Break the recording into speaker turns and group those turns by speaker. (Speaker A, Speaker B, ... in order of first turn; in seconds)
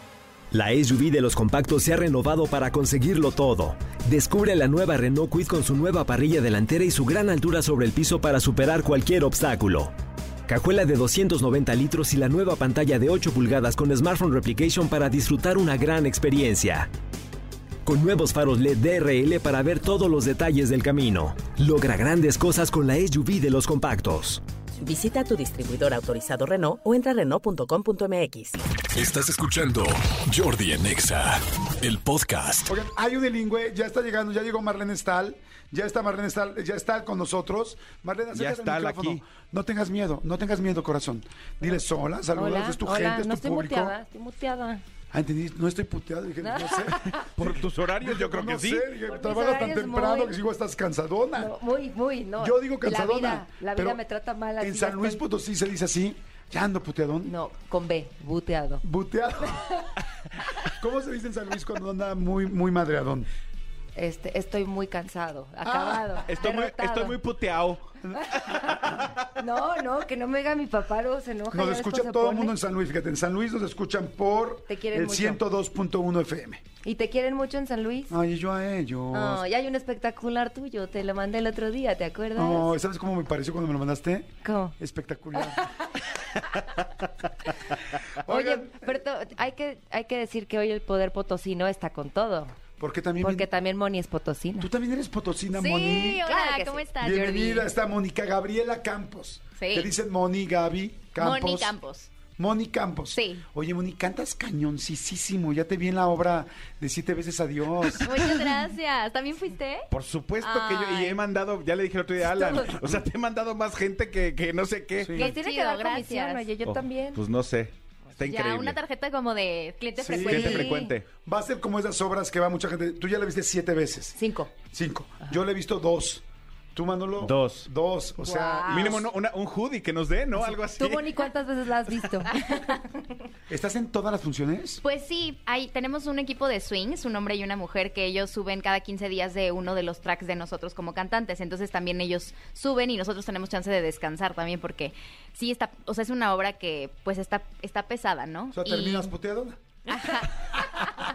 Speaker A: 0.5-9.9, 10.5-16.9, 17.9-24.4
Speaker B: 24.8-28.6
Speaker C: 28.9-32.7
Speaker D: 32.7-44.0, 45.1-51.5, 52.4-54.0, 54.6-57.3, 58.8-59.9, 60.6-63.3, 65.6-66.2, 68.0-69.0, 71.5-76.6, 78.1-79.4, 82.3-85.8, 88.2-89.0, 92.8-93.5, 94.6-96.3, 97.0-101.7, 102.4-108.5, 115.0-115.3, 120.0-120.7, 121.2-126.2, 126.8-129.1, 133.5-134.8, 148.5-149.6
Speaker E: 38.3-39.2, 47.1-48.9, 66.3-68.0, 68.5-69.1, 109.9-115.2, 116.7-118.8, 120.3-121.1, 127.2-127.7, 128.7-131.3
Speaker F: 42.3-44.8, 46.4-47.3, 49.1-50.4, 51.4-55.2, 57.3-58.8, 64.0-67.2, 68.3-68.8, 69.3-72.5, 74.7-75.4, 76.8-78.2, 79.1-82.7, 84.4-84.8, 88.3-92.5, 93.2-94.7, 96.2-96.8, 115.2-117.2, 120.1-120.9, 124.2-124.5, 128.2-129.1, 130.4-132.8
Speaker G: 95.5-97.7, 99.6-99.9, 101.2-102.1, 103.1-103.4, 108.0-109.9, 110.4-111.2, 115.2-116.5, 118.2-120.7, 134.8-149.1, 149.9-150.9